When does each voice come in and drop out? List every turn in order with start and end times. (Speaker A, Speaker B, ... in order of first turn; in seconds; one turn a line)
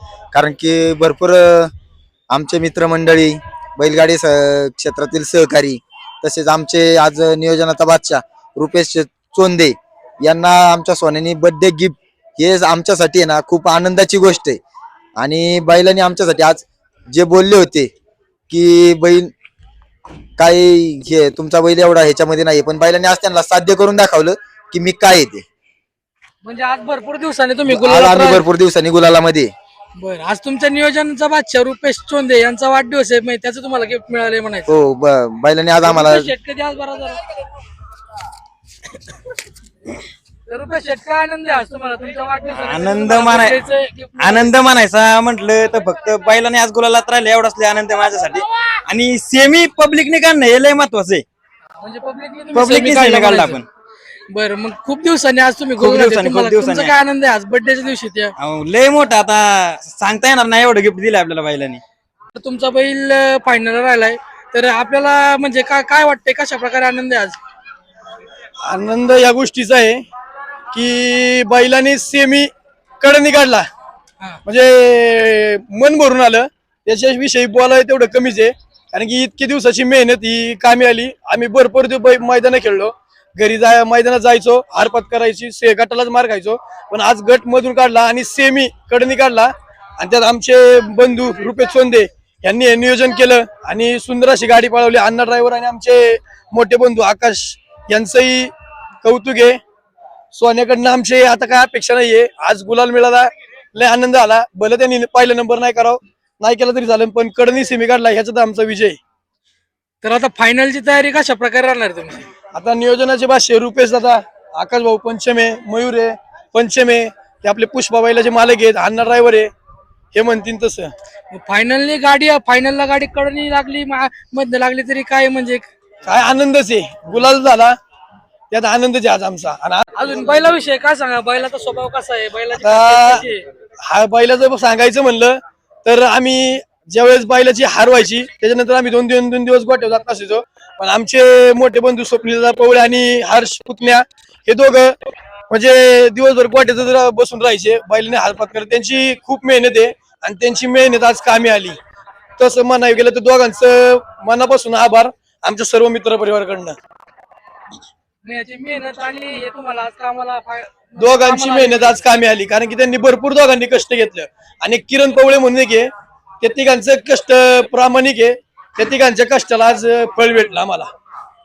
Speaker A: 0.3-1.7
Speaker A: 2.3-14.6
Speaker A: 15.2-17.9
Speaker A: 18.5-19.3
Speaker A: 20.4-25.4
Speaker B: 26.4-28.4
Speaker A: 27.7-29.5
Speaker B: 30.0-34.7
Speaker A: 34.7-36.3
Speaker B: 35.8-37.2
Speaker B: 40.5-44.6
Speaker C: 42.6-43.6
Speaker C: 44.2-51.2
Speaker B: 51.8-53.6
Speaker C: 52.5-53.6
Speaker B: 54.3-58.3
Speaker C: 55.8-56.9
Speaker C: 58.4-61.8
Speaker B: 62.3-67.4
Speaker D: 68.6-70.0
Speaker D: 70.7-72.5
Speaker D: 73.0-73.7
Speaker D: 74.4-98.5
Speaker D: 99.0-99.6
Speaker D: 100.3-109.0
Speaker B: 110.0-112.3
Speaker D: 112.5-119.5
Speaker D: 120.1-120.9
Speaker B: 121.3-125.7
Speaker D: 126.0-127.8
Speaker D: 128.5-129.9
Speaker B: 129.9-133.4
Speaker D: 132.5-133.3
Speaker D: 133.8-144.9
Speaker D: 145.5-151.8
Speaker D: 152.4-156.8
Speaker B: 158.2-162.1
Speaker D: 161.0-170.9